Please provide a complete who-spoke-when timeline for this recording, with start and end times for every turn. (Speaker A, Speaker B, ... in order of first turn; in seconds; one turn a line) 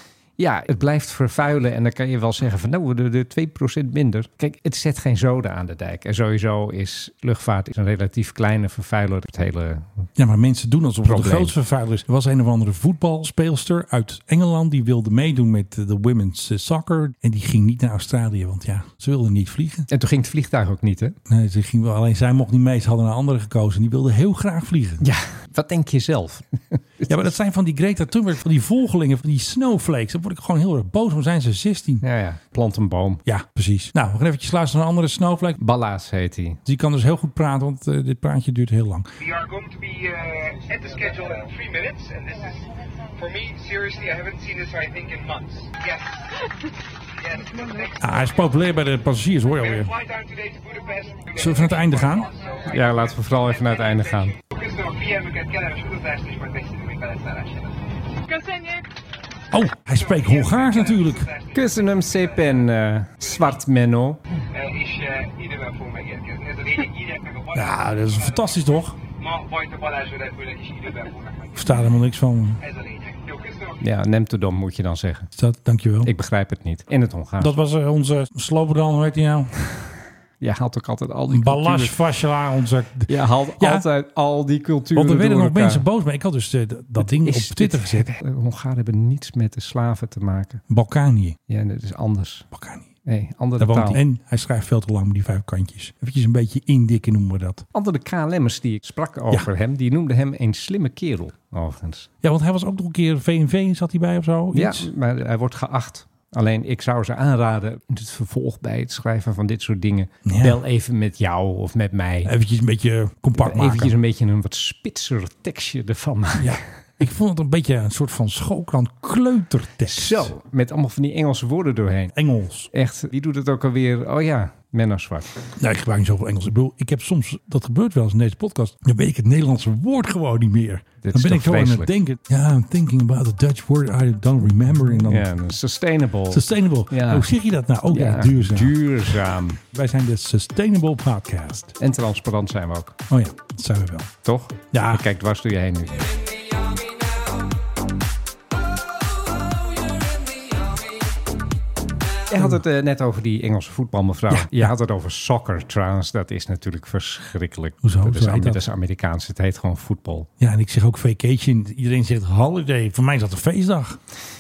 Speaker A: 0.4-10.1
Speaker B: 10.2-19.9
Speaker A: 11.0-11.6
Speaker A: 19.9-21.2
Speaker B: 21.3-25.0
Speaker A: 25.0-27.2
Speaker B: 27.1-32.0
Speaker A: 32.0-33.2
Speaker B: 33.3-35.6
Speaker A: 35.6-36.6
Speaker B: 36.7-39.1
Speaker C: 39.2-42.6
Speaker C: 43.2-46.2
Speaker C: 47.2-48.6
Speaker B: 48.0-49.9
Speaker C: 49.5-58.5
Speaker B: 51.3-52.3
Speaker A: 52.7-54.4
Speaker B: 59.5-61.3
Speaker C: 59.9-62.7
Speaker A: 61.5-64.2
Speaker C: 63.2-63.6
Speaker C: 64.5-71.8
Speaker B: 67.5-69.0
Speaker B: 71.5-72.6
Speaker C: 72.6-73.8
Speaker A: 73.8-75.3
Speaker B: 75.3-76.1
Speaker A: 76.0-77.5
Speaker B: 77.4-79.5
Speaker A: 80.4-82.0
Speaker B: 81.3-83.9
Speaker A: 83.1-85.8
Speaker B: 85.0-88.1
Speaker A: 87.0-90.6
Speaker B: 90.7-91.4
Speaker A: 91.5-92.5
Speaker B: 92.5-92.9
Speaker A: 93.1-94.0
Speaker B: 93.6-97.7
Speaker A: 97.7-102.1
Speaker B: 102.2-104.9
Speaker A: 104.5-112.3
Speaker B: 110.2-110.6
Speaker B: 112.2-114.0
Speaker A: 113.4-116.6
Speaker B: 116.4-120.3
Speaker A: 119.9-122.1
Speaker B: 122.2-122.7
Speaker A: 122.7-125.3
Speaker B: 125.6-135.4
Speaker A: 131.0-131.9
Speaker A: 135.1-137.3
Speaker B: 136.3-141.7
Speaker A: 137.9-139.6
Speaker A: 141.8-143.0
Speaker B: 143.1-144.1
Speaker A: 144.2-146.1
Speaker B: 144.7-145.1
Speaker A: 152.3-160.3
Speaker B: 154.3-154.7
Speaker B: 157.8-158.6
Speaker B: 160.4-164.0